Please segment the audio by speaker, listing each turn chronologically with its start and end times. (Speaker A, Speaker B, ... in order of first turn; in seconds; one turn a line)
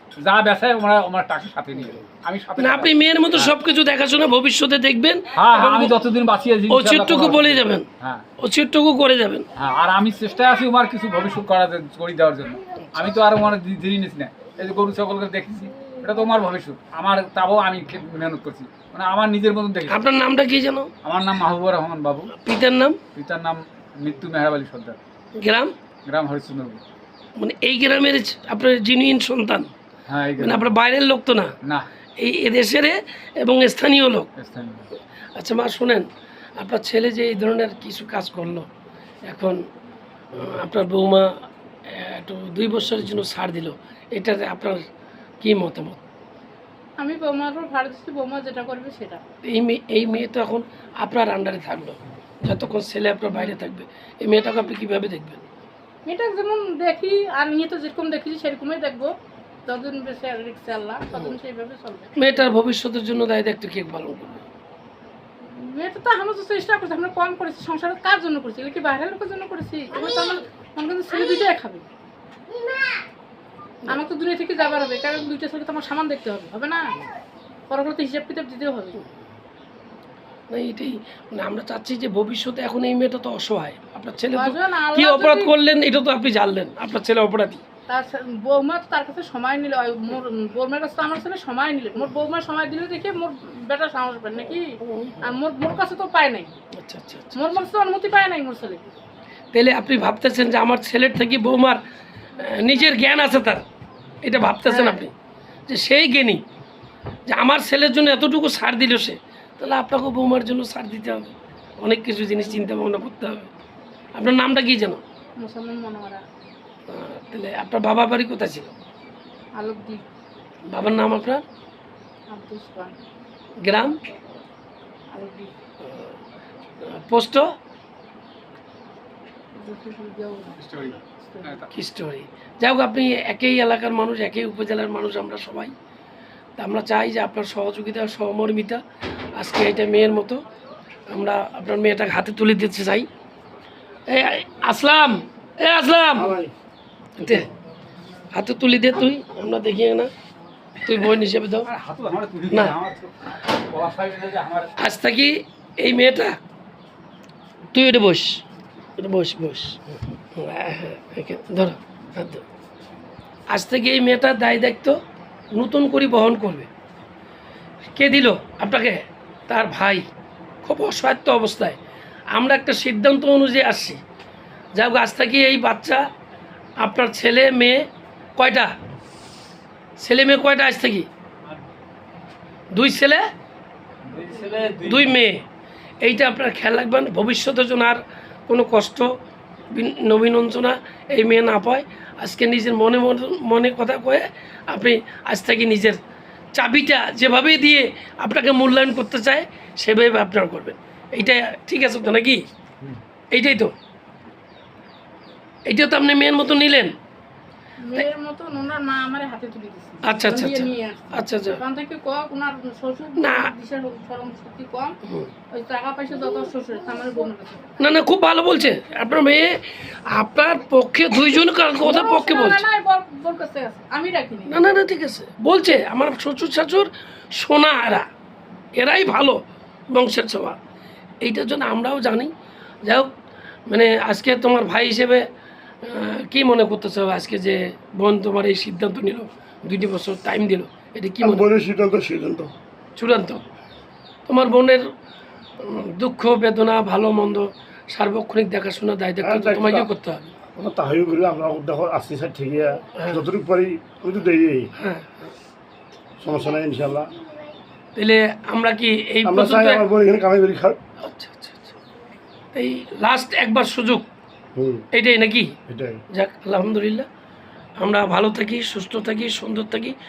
Speaker A: 0.2-3.5
Speaker B: 2.6-6.0
Speaker A: 5.4-8.2
Speaker B: 6.7-7.8
Speaker B: 8.4-9.5
Speaker A: 9.6-20.0
Speaker B: 19.9-20.9
Speaker A: 21.0-22.3
Speaker B: 22.3-23.0
Speaker A: 23.1-25.0
Speaker B: 25.4-25.7
Speaker A: 26.1-26.8
Speaker B: 27.4-29.7
Speaker A: 30.1-30.7
Speaker B: 30.4-31.5
Speaker B: 32.2-34.3
Speaker A: 34.4-34.9
Speaker B: 35.4-38.7
Speaker B: 39.3-39.6
Speaker B: 40.3-41.4
Speaker B: 41.9-44.8
Speaker B: 45.4-46.0
Speaker C: 47.0-49.2
Speaker B: 49.5-55.5
Speaker C: 56.0-59.1
Speaker C: 59.7-62.1
Speaker B: 62.2-64.4
Speaker C: 65.5-71.8
Speaker C: 73.9-76.9
Speaker C: 77.7-79.0
Speaker B: 80.5-87.6
Speaker C: 84.3-85.5
Speaker C: 87.9-96.5
Speaker B: 94.8-95.3
Speaker B: 96.8-97.6
Speaker C: 97.3-98.8
Speaker B: 99.5-101.8
Speaker B: 102.4-103.6
Speaker B: 104.2-105.1
Speaker C: 104.7-105.0
Speaker B: 105.7-106.4
Speaker B: 107.3-113.5
Speaker B: 114.2-115.0
Speaker C: 115.4-116.2
Speaker B: 116.9-118.7
Speaker C: 119.6-120.0
Speaker B: 120.7-121.4
Speaker C: 122.3-122.9
Speaker B: 123.6-124.0
Speaker C: 125.1-125.5
Speaker B: 125.8-126.1
Speaker B: 126.8-127.4
Speaker C: 129.5-131.6
Speaker A: 130.6-131.7
Speaker B: 131.7-135.7
Speaker B: 136.6-138.8
Speaker B: 139.4-140.4
Speaker B: 141.1-143.1
Speaker B: 144.1-146.3
Speaker D: 146.2-146.5
Speaker B: 147.2-147.5
Speaker B: 148.3-150.1
Speaker B: 150.8-151.7
Speaker A: 151.7-154.7
Speaker B: 152.5-152.8
Speaker B: 154.8-156.4
Speaker B: 157.7-158.4
Speaker B: 159.0-162.4
Speaker B: 163.5-165.0
Speaker B: 165.5-166.7
Speaker B: 167.9-170.0
Speaker B: 170.6-171.8
Speaker B: 172.3-174.0
Speaker B: 174.8-176.0
Speaker B: 176.8-178.7
Speaker B: 180.0-181.1
Speaker B: 182.7-183.2
Speaker A: 184.1-185.1
Speaker B: 184.8-185.4
Speaker B: 186.0-189.1
Speaker B: 189.7-196.0
Speaker B: 196.5-202.4
Speaker B: 203.3-203.7
Speaker B: 205.7-206.9
Speaker C: 207.8-215.0
Speaker B: 210.0-211.6
Speaker B: 213.2-213.5
Speaker C: 215.5-217.7
Speaker B: 217.8-222.6
Speaker C: 221.8-224.6
Speaker B: 224.5-228.1
Speaker B: 228.8-229.4
Speaker B: 229.9-230.6
Speaker B: 231.2-232.3
Speaker B: 233.7-235.2
Speaker B: 235.8-241.5
Speaker D: 241.2-242.5
Speaker B: 243.0-243.4
Speaker B: 244.2-244.9
Speaker B: 245.6-250.2
Speaker D: 249.2-249.9
Speaker D: 250.6-254.7
Speaker B: 253.0-253.2
Speaker B: 254.8-255.3
Speaker D: 256.2-257.1
Speaker B: 257.9-259.8
Speaker D: 259.2-260.8
Speaker B: 261.0-261.8
Speaker B: 262.5-264.1
Speaker D: 264.6-264.8
Speaker B: 264.9-265.5
Speaker D: 265.7-266.0
Speaker B: 266.1-267.1
Speaker B: 267.8-269.9